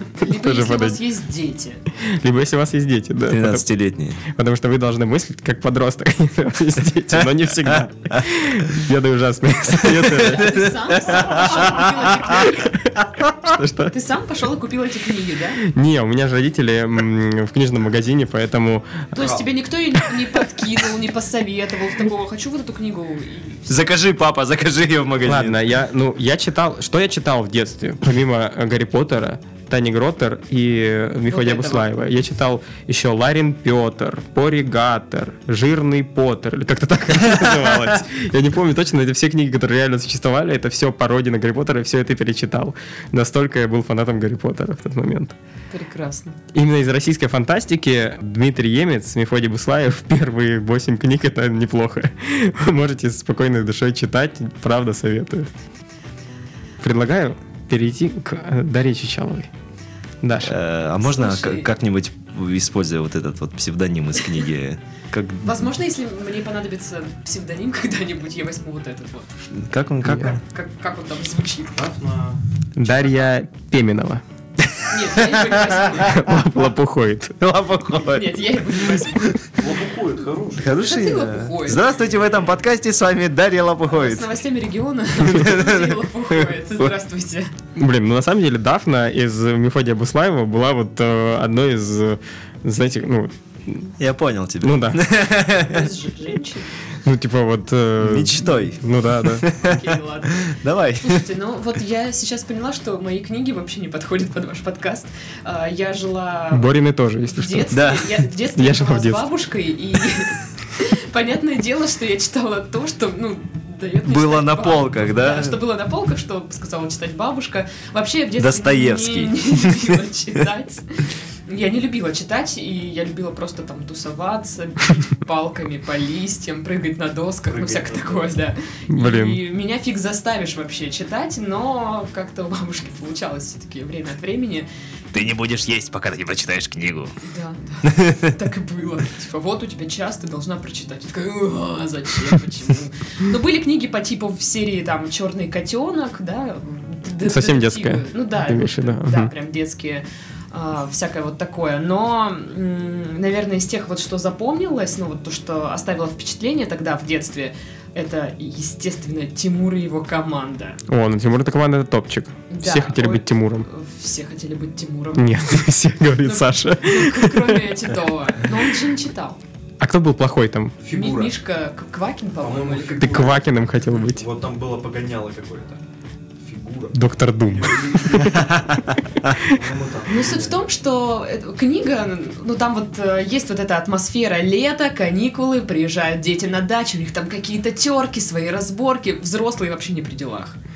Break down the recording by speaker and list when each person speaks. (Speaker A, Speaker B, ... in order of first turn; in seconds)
Speaker A: 0.1-1.8, 10.1-12.7, 13.9-15.6, 19.1-23.9, 31.3-31.9, 45.7-46.4, 61.0-61.7, 65.4-69.3, 70.2-71.8, 72.8-73.2, 74.9-76.2, 78.0-79.4, 80.7-81.9, 83.9-87.5, 95.5-96.7, 99.6-106.7, 107.3-134.7, 137.3-160.8, 162.5-165.6, 166.2-169.4, 170.9-173.4, 180.1-190.6
Speaker B: 0.2-1.0, 2.0-3.7, 4.2-10.7, 12.3-13.9, 15.6-19.1, 25.2-45.3, 46.5-55.5, 56.8-59.5, 60.2-60.5, 70.0-70.3, 72.8-74.2, 76.0-77.3, 87.8-93.9, 94.6-95.0, 97.0-99.5, 106.5-107.7, 108.5-109.2, 128.9-129.4, 147.2-149.3, 160.9-163.7, 165.2-167.8, 169.8-170.8, 173.0-174.2, 176.9-178.5, 179.3-179.5
Speaker C: 3.3-4.2, 7.1-8.2, 9.7-12.4, 23.7-25.6, 60.4-65.7, 69.5-70.4, 74.6-76.3, 77.4-79.3, 80.6-84.3, 85.2-86.9, 94.0-95.9, 98.0-101.2, 107.7-108.2, 114.0-115.6, 118.4-120.0, 135.1-137.1, 137.8-138.3
Speaker D: 19.2-19.4, 71.8-72.4, 79.6-80.7, 127.5-128.4, 170.8-171.3, 172.4-175.8, 176.4-177.0, 177.5-178.8, 179.4-180.6